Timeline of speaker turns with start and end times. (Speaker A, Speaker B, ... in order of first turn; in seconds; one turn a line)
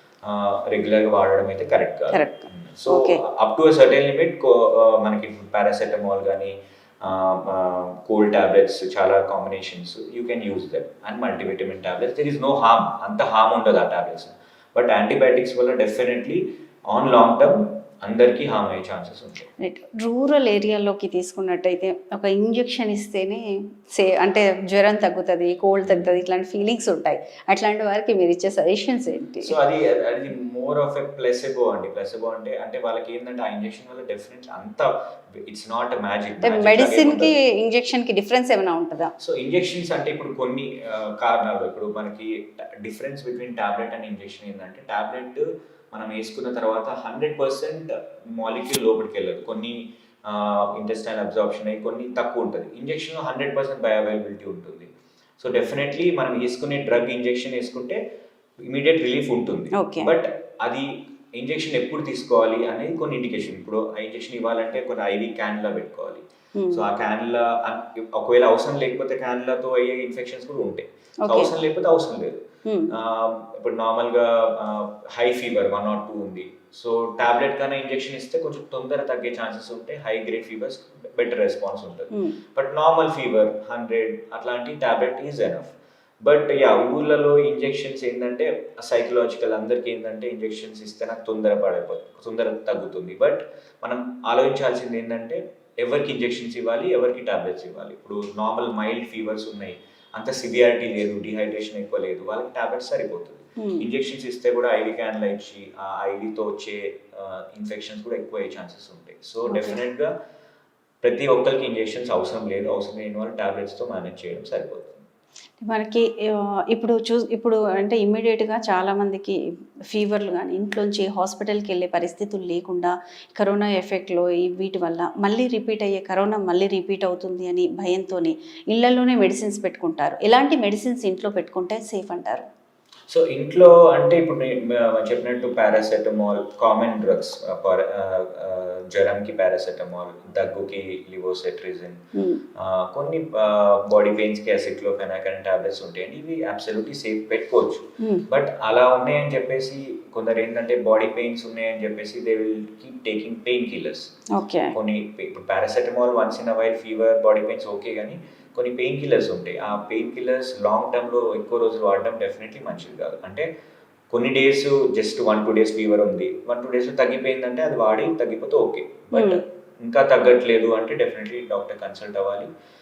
Speaker A: 0.2-19.5
Speaker B: 2.1-3.2
Speaker B: 19.6-29.5
Speaker A: 25.9-26.1
Speaker A: 29.4-37.4
Speaker B: 36.4-39.1
Speaker A: 39.2-58.0
Speaker A: 58.6-110.1
Speaker B: 59.8-60.1
Speaker B: 66.6-66.8
Speaker B: 71.2-71.5
Speaker B: 72.7-72.9
Speaker B: 103.6-103.8
Speaker B: 109.5-109.8
Speaker A: 111.0-115.0
Speaker B: 115.6-119.4
Speaker B: 119.9-132.4
Speaker A: 133.1-142.0
Speaker B: 142.2-142.4
Speaker A: 142.6-154.1
Speaker B: 154.3-154.8
Speaker A: 154.7-163.5
Speaker A: 164.1-172.5
Speaker B: 169.1-169.4